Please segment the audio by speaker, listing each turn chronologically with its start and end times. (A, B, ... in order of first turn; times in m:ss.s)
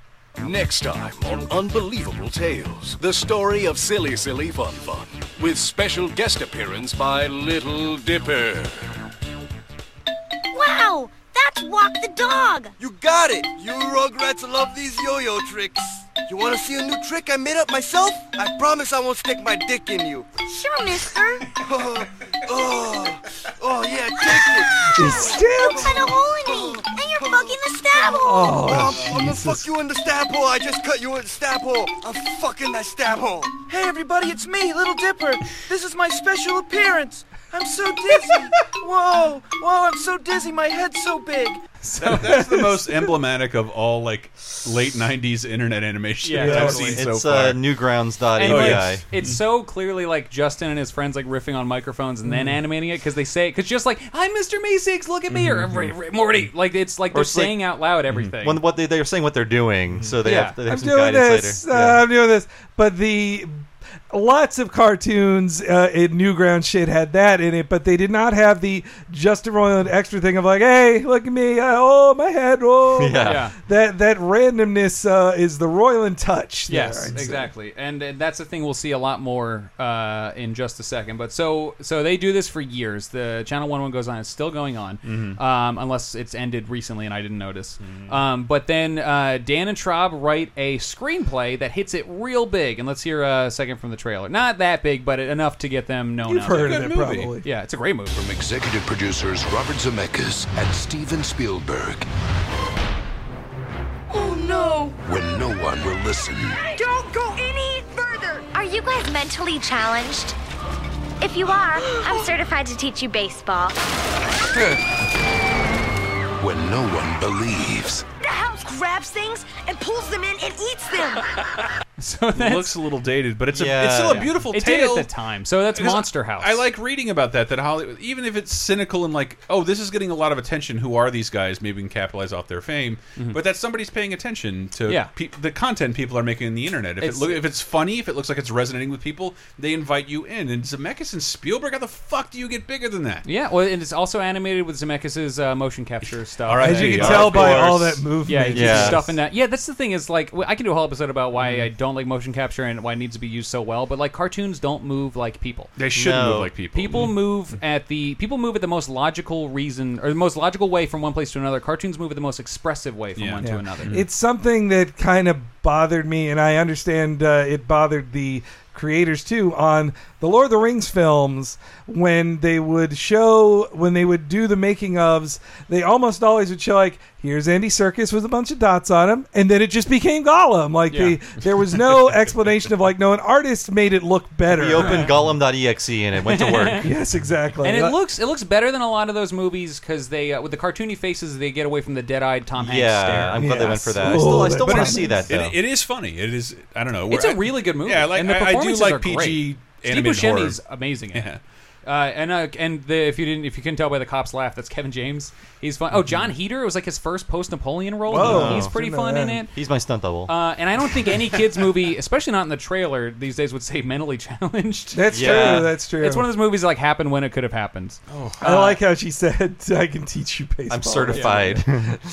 0:00.4-0:08.9 A
0:10.5-0:12.7 B
0:12.8-0:20.3 C
0:20.4-0:21.5 B
0:21.6-0:33.6 C
0:24.8-0:28.7 B
0:24.9-0:25.9 D
0:28.2-0:29.6 D
0:33.7-0:41.6 E
0:41.8-0:42.4 F
0:42.0-0:47.6 G
0:42.3-0:42.8 D
0:46.2-0:47.0 F
0:46.4-0:49.0 H
0:48.4-0:58.6 F
0:48.4-0:49.4 G
0:52.2-0:52.6 D
0:55.3-0:55.9 G
0:57.1-0:57.6 H
0:58.4-1:02.0 H
1:00.2-1:00.6 F
1:00.7-1:17.5 D
1:12.9-1:13.4 H
1:13.2-1:13.6 F
1:16.7-1:36.9 F
1:25.0-1:25.4 G
1:27.8-1:28.2 G
1:36.3-1:37.4 D
1:36.5-1:37.3 G
1:37.4-1:38.1 F
1:38.1-1:42.1 A
1:44.2-1:44.7 B
1:45.0-1:46.6 A
1:46.7-1:50.4 B
1:51.2-1:53.8 B
1:56.4-1:58.0 A
1:58.2-2:01.3 B
2:02.0-2:02.7 F
2:02.3-2:05.1 G
2:03.5-2:04.3 H
2:04.0-2:06.6 F
2:05.7-2:23.2 G
2:17.0-2:17.4 F
2:23.2-2:27.7 F
2:26.4-2:28.0 G
2:26.6-2:29.1 D
2:27.2-2:27.5 H
2:28.3-2:35.7 F
2:28.5-2:29.0 H
2:31.4-2:31.7 G
2:35.8-2:37.2 G
2:35.9-2:36.5 H
2:36.7-2:43.9 F
2:43.2-2:44.0 G
2:43.4-3:05.1 D
3:00.9-3:01.2 F
3:04.5-3:06.9 H
3:04.8-3:05.1 F
3:06.2-3:06.8 F
3:06.8-3:07.9 D
3:07.6-3:14.7 F
3:12.6-3:15.6 H
3:13.3-3:15.2 D
3:15.2-3:20.6 G
3:17.1-3:21.3 F
3:21.1-3:21.4 G
3:21.8-3:29.5 F
3:26.0-3:26.3 G
3:28.1-3:29.4 D
3:28.2-3:28.7 H
3:29.5-3:30.3 H
3:30.3-3:38.8 F
3:34.9-3:36.3 D
3:35.1-3:35.7 H
3:38.1-3:38.4 G
3:38.4-3:41.7 D
3:40.7-3:42.0 H
3:41.1-3:41.4 F